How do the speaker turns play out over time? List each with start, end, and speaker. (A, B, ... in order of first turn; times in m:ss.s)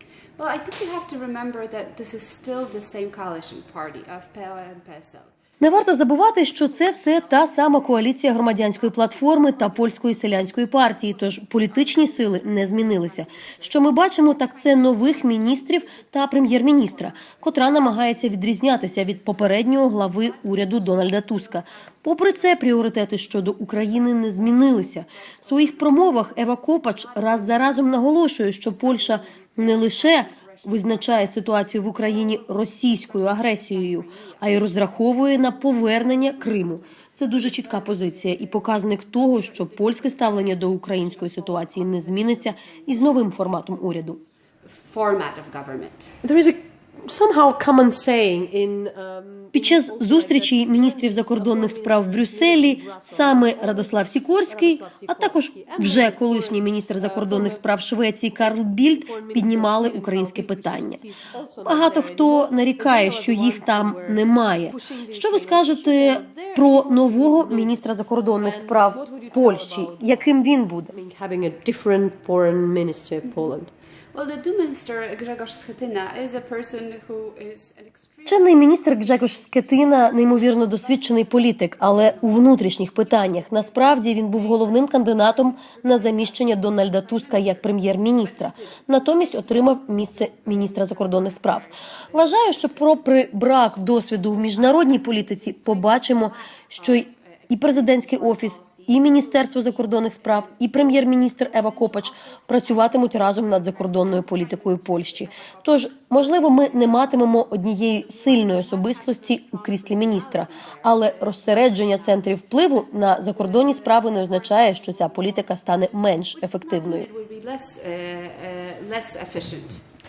0:00.4-0:05.3 A
0:05.6-0:44.2 B
0:06.5-0:43.6 A
0:44.6-0:46.1 A
0:46.2-0:57.6 C
0:49.5-1:01.0 B
0:58.4-1:10.3 C
1:01.6-1:10.9 B
1:10.9-1:13.7 C
1:13.3-1:13.5 A
1:14.1-1:59.8 A
1:18.2-1:57.0 B